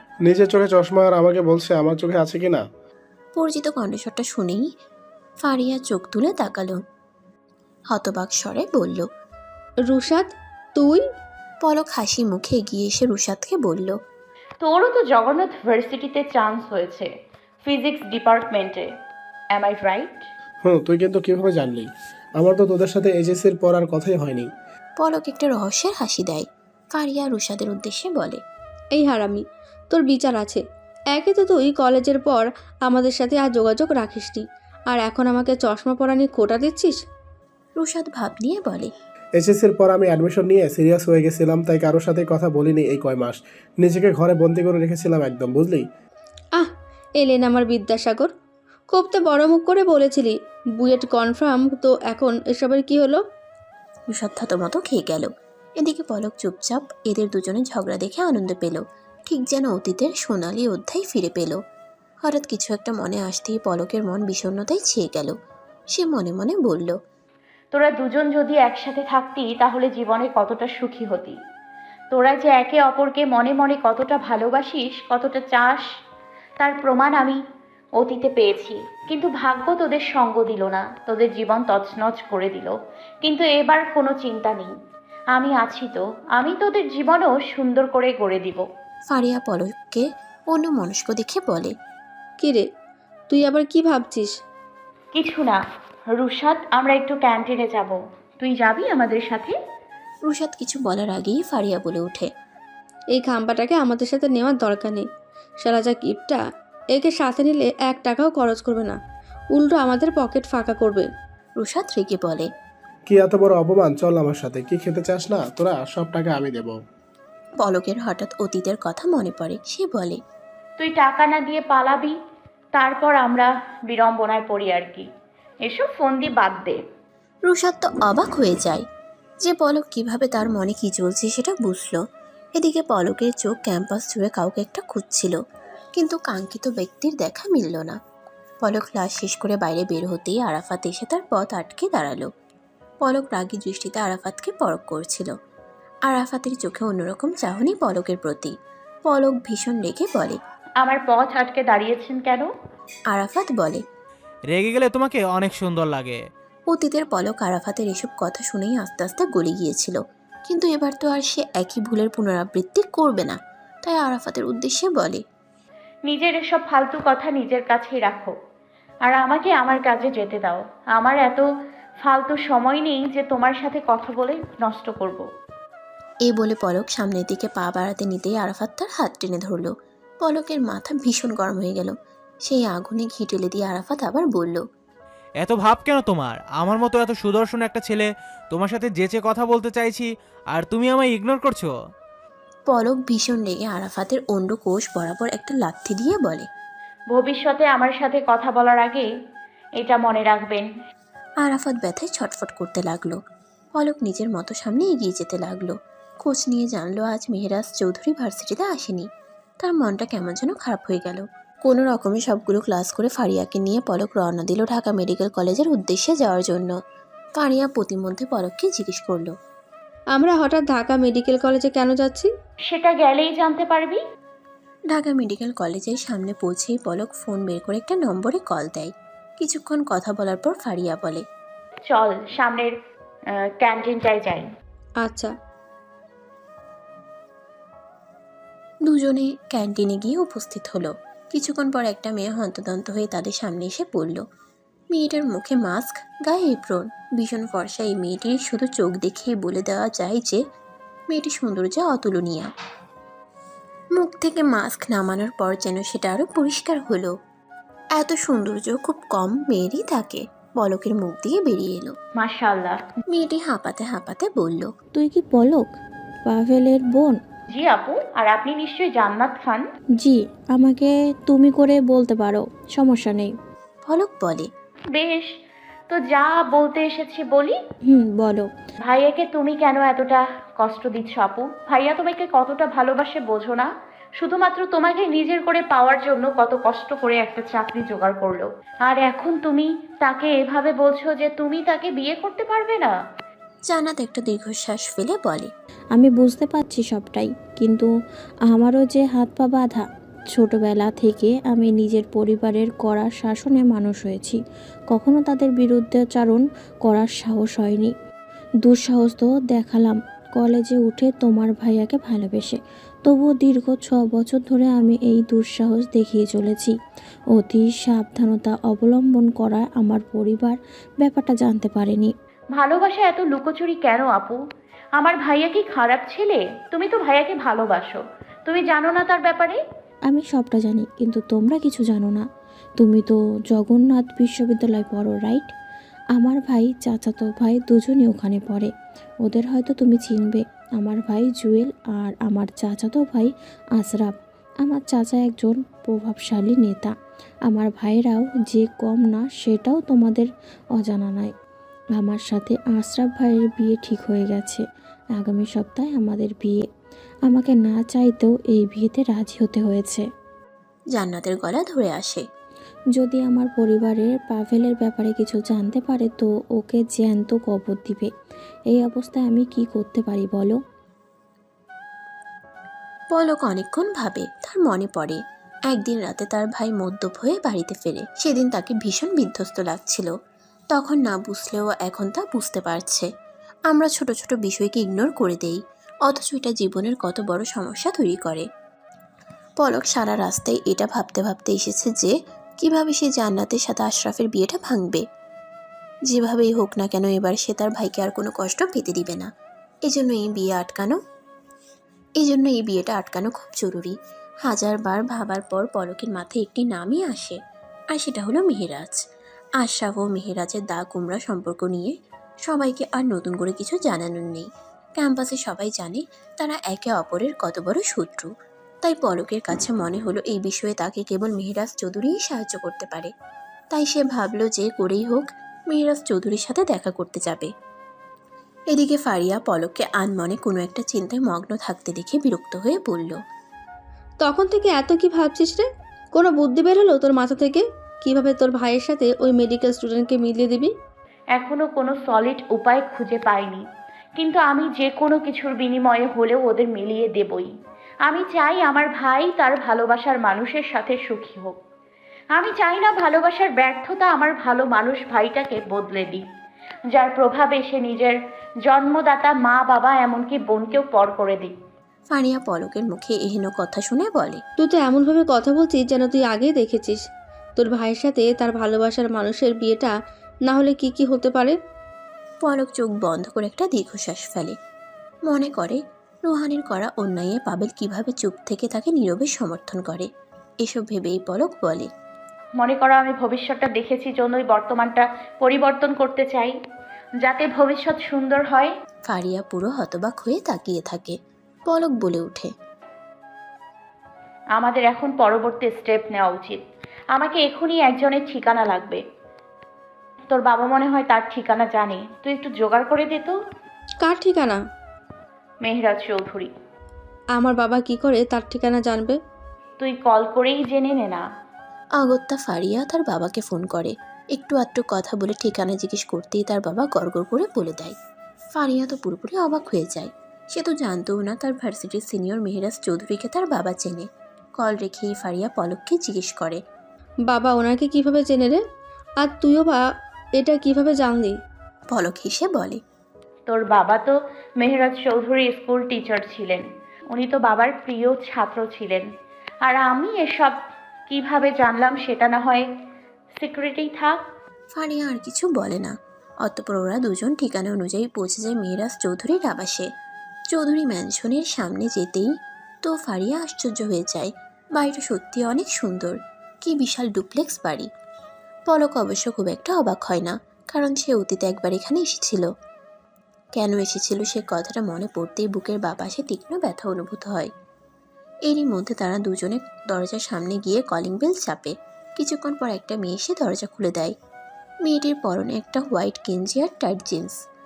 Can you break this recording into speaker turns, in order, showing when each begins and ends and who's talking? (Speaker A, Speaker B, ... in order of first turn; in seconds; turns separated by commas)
Speaker A: 0.2-2.6, Speaker B: 3.4-4.6, Speaker B: 5.4-6.8, Speaker B: 7.9-9.1, Speaker C: 9.8-11.0, Speaker B: 11.6-13.9, Speaker D: 14.6-17.1, Speaker D: 17.6-18.9, Speaker D: 19.5-20.2, Speaker A: 20.6-24.5, Speaker B: 25.0-28.4, Speaker C: 28.9-37.0, Speaker B: 37.8-38.9, Speaker A: 39.4-45.9, Speaker C: 46.5-48.3, Speaker C: 48.9-53.2, Speaker B: 54.1-61.6, Speaker B: 62.2-65.3, Speaker B: 65.9-67.0, Speaker D: 67.7-71.4, Speaker D: 72.1-75.8, Speaker D: 76.6-77.4, Speaker D: 78.0-84.7, Speaker D: 85.3-88.7, Speaker B: 89.1-91.7, Speaker C: 92.4-92.7, Speaker C: 93.3-94.3, Speaker D: 95.1-95.6, Speaker D: 96.1-99.5, Speaker B: 100.2-102.3, Speaker C: 103.1-105.0, Speaker C: 105.6-106.4, Speaker C: 106.9-109.0, Speaker C: 109.5-111.1, Speaker B: 111.6-112.5, Speaker A: 113.1-116.8, Speaker B: 117.6-120.2, Speaker D: 120.8-122.1, Speaker D: 122.8-125.1, Speaker D: 125.7-126.8, Speaker B: 127.4-128.8, Speaker B: 129.4-132.0, Speaker B: 132.6-135.3, Speaker B: 135.9-138.0, Speaker B: 138.6-142.3, Speaker B: 143.0-145.3, Speaker B: 146.1-148.5, Speaker B: 149.1-150.4, Speaker D: 150.8-152.5, Speaker B: 153.1-153.8, Speaker E: 154.5-156.2, Speaker B: 156.7-165.2, Speaker D: 166.1-168.3, Speaker D: 169.1-171.5, Speaker D: 172.1-175.2, Speaker B: 176.2-179.7, Speaker B: 180.2-181.9, Speaker B: 182.4-184.6, Speaker E: 185.4-191.7, Speaker B: 192.7-196.4, Speaker D: 197.1-199.1, Speaker D: 199.8-200.7, Speaker B: 201.4-203.2, Speaker B: 203.8-209.1, Speaker B: 209.6-216.7, Speaker B: 217.3-219.3, Speaker C: 220.1-222.3, Speaker D: 222.7-224.0, Speaker B: 224.9-231.2, Speaker D: 231.9-232.7, Speaker D: 233.6-234.5, Speaker C: 235.0-235.3, Speaker B: 238.8-244.2, Speaker B: 244.9-250.4, Speaker B: 251.1-252.5, Speaker B: 253.9-257.1, Speaker B: 257.9-261.9, Speaker D: 262.2-262.8, Speaker B: 263.1-264.7, Speaker F: 264.9-265.7, Speaker F: 266.2-267.2, Speaker D: 267.5-269.6, Speaker F: 270.0-273.3, Speaker B: 273.8-274.5, Speaker D: 274.9-275.3, Speaker D: 275.9-277.6, Speaker F: 277.9-278.5, Speaker D: 278.8-292.9, Speaker B: 293.7-295.5, Speaker F: 295.9-297.9, Speaker F: 298.5-304.4, Speaker F: 304.9-307.9, Speaker F: 308.6-316.7, Speaker F: 317.4-322.1, Speaker D: 322.6-324.4, Speaker D: 325.0-329.6, Speaker F: 330.1-332.2, Speaker F: 332.8-335.5, Speaker F: 336.2-338.7, Speaker F: 339.3-346.9, Speaker F: 347.5-351.3, Speaker F: 352.0-354.6, Speaker F: 355.2-356.6, Speaker F: 357.3-360.1, Speaker B: 360.9-362.2, Speaker F: 362.9-368.1, Speaker F: 368.7-370.6, Speaker B: 373.1-380.1, Speaker B: 380.7-383.1, Speaker B: 383.7-388.4, Speaker B: 389.6-395.0, Speaker B: 396.1-399.3, Speaker B: 399.9-401.0, Speaker B: 402.2-407.4, Speaker B: 407.9-409.0, Speaker B: 409.6-411.9, Speaker B: 412.4-414.5, Speaker B: 415.0-418.3, Speaker B: 418.8-423.1, Speaker B: 423.7-427.5, Speaker B: 428.7-433.1, Speaker C: 434.2-440.7, Speaker D: 441.4-443.6, Speaker D: 444.2-447.5, Speaker D: 448.1-451.6, Speaker D: 452.4-456.2, Speaker D: 456.9-458.1, Speaker D: 458.7-461.5, Speaker B: 462.1-464.4, Speaker C: 464.6-467.0, Speaker C: 467.6-469.9, Speaker C: 470.4-471.6, Speaker B: 472.4-474.5, Speaker B: 475.3-480.1, Speaker B: 480.6-481.9, Speaker D: 482.6-486.5, Speaker D: 487.2-488.7, Speaker B: 489.1-491.1, Speaker B: 491.7-492.5, Speaker D: 494.6-496.6, Speaker D: 497.1-499.0, Speaker D: 500.3-503.4, Speaker C: 504.0-504.6, Speaker D: 505.6-506.5, Speaker C: 507.4-509.2, Speaker D: 509.8-511.2, Speaker B: 512.0-517.9, Speaker B: 518.5-524.0, Speaker B: 524.6-526.6, Speaker C: 527.3-528.6, Speaker C: 529.2-529.8, Speaker C: 530.4-531.3, Speaker B: 531.9-532.8, Speaker D: 533.5-539.1, Speaker D: 539.6-542.7, Speaker D: 543.4-544.2, Speaker B: 544.7-549.9, Speaker B: 550.5-552.3, Speaker B: 552.8-557.9, Speaker B: 558.7-562.5, Speaker B: 563.6-567.5, Speaker B: 568.5-574.1, Speaker B: 574.9-577.3